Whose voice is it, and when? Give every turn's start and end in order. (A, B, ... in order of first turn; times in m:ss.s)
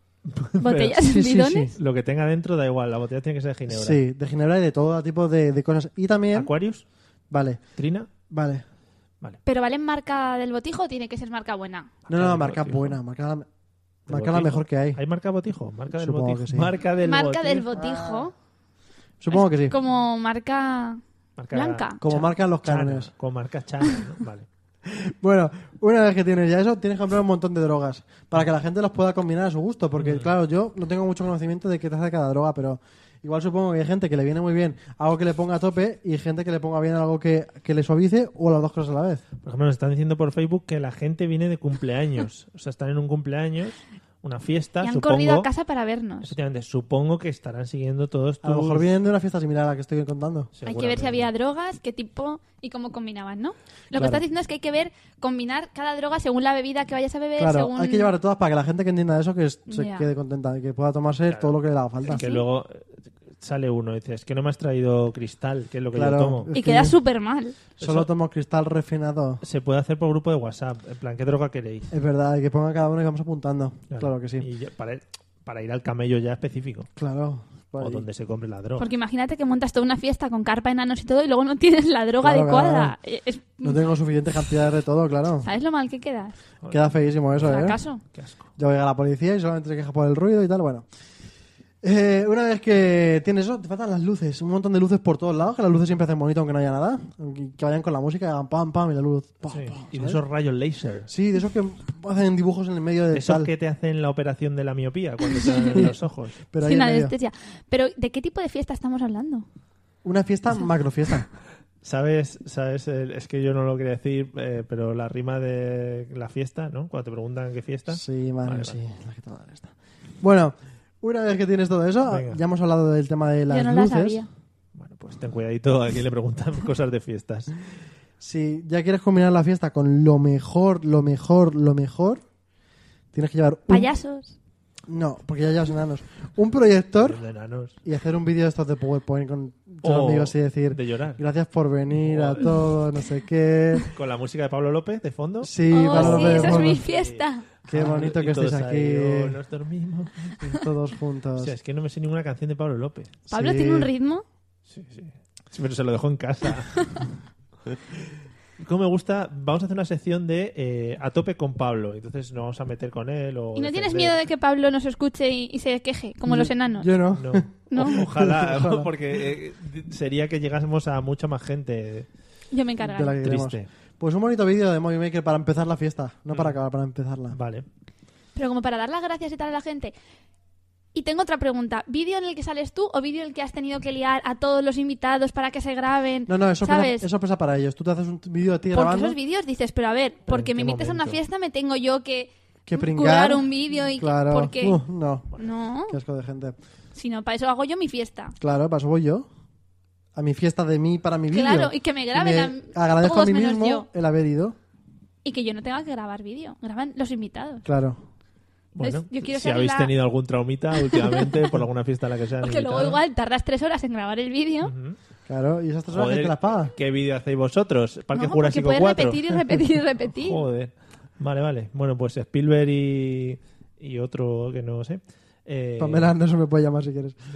0:00.3-0:04.0 A
0:00.6-0:01.8 B
0:01.0-0:01.7 C
0:03.7-0:06.5 C
0:06.3-0:06.8 A
0:07.3-0:07.6 C
0:07.8-0:08.1 A
0:08.3-0:08.6 C
0:09.5-0:11.9 B
0:12.1-0:13.0 A
0:12.1-0:13.5 C
0:14.1-0:15.0 C
0:14.1-0:17.7 A
0:16.0-0:16.7 C
0:17.0-0:18.3 B
0:17.7-0:18.3 C
0:19.2-0:19.8 C
0:19.3-0:21.0 B
0:21.4-0:24.5 A
0:21.5-0:22.0 B
0:22.0-0:23.1 C
0:24.8-0:39.2 C
0:30.0-0:30.3 A
0:39.4-0:45.5 A
0:44.8-0:46.3 B
0:46.2-0:48.9 A
0:48.4-0:50.5 C
0:50.6-0:51.3 A
0:50.7-0:58.1 B
0:53.9-0:54.2 C
0:57.4-1:02.2 C
0:59.7-1:00.1 B
1:01.3-1:02.9 A
1:02.1-1:02.4 B
1:03.4-1:06.5 A
1:05.9-1:07.0 C
1:06.5-1:07.6 B
1:07.8-1:08.1 A
1:07.8-1:09.4 C
1:09.4-1:11.9 A
1:11.9-1:14.5 C
1:13.9-1:16.9 A
1:17.0-1:18.0 C
1:17.8-1:18.9 A
1:18.8-1:23.8 B
1:22.2-1:23.0 C
1:23.6-1:25.5 C
1:25.4-1:26.4 B
1:26.6-1:28.5 A
1:26.7-1:27.8 C
1:27.4-1:28.0 B
1:28.6-1:30.9 C
1:31.8-1:40.2 C
1:39.5-1:41.1 A
1:41.1-1:43.5 C
1:43.1-1:46.4 A
1:45.3-1:45.9 B
1:45.7-1:47.1 C
1:46.6-1:49.5 B
1:50.0-1:51.3 C
1:51.8-1:58.8 A
1:57.9-2:04.2 C
2:02.1-2:02.4 A
2:03.5-2:04.3 B
2:04.8-2:07.5 A
2:08.2-2:12.2 C
2:13.1-2:13.9 C
2:13.7-2:14.4 B
2:14.9-2:17.2 C
2:17.0-2:17.8 A
2:17.8-2:23.9 C
2:19.8-2:21.2 A
2:21.9-2:22.7 A
2:23.9-2:30.5 A
2:25.4-2:26.8 C
2:25.7-2:27.4 B
2:27.7-2:29.4 C
2:30.4-2:31.5 C
2:31.4-2:33.2 A
2:33.3-2:33.9 C
2:33.3-2:34.2 B
2:34.7-2:37.1 A
2:38.6-2:44.2 A
2:43.6-2:46.9 B
2:46.3-2:48.9 C
2:47.1-2:52.1 A
2:47.7-2:48.0 B
2:52.5-2:53.2 B
2:52.8-2:57.4 C
2:53.2-2:53.7 A
2:57.3-2:57.7 A
2:58.4-2:59.9 B
3:00.9-3:07.1 B
3:06.3-3:09.2 C
3:08.7-3:14.8 B
3:10.3-3:11.2 A
3:12.7-3:15.3 C
3:15.4-3:16.0 B
3:15.9-3:16.6 C
3:17.0-3:18.4 B
3:18.4-3:19.3 C
3:20.2-3:24.6 C
3:21.3-3:23.9 B
3:25.2-3:27.7 B
3:27.6-3:28.0 C
3:28.8-3:33.0 A
3:28.8-3:29.9 B
3:30.9-3:31.3 B
3:32.4-3:34.7 B
3:34.6-3:35.0 A
3:35.3-3:36.7 C
3:35.9-3:46.1 A
3:38.1-3:40.4 B
3:45.8-3:47.2 C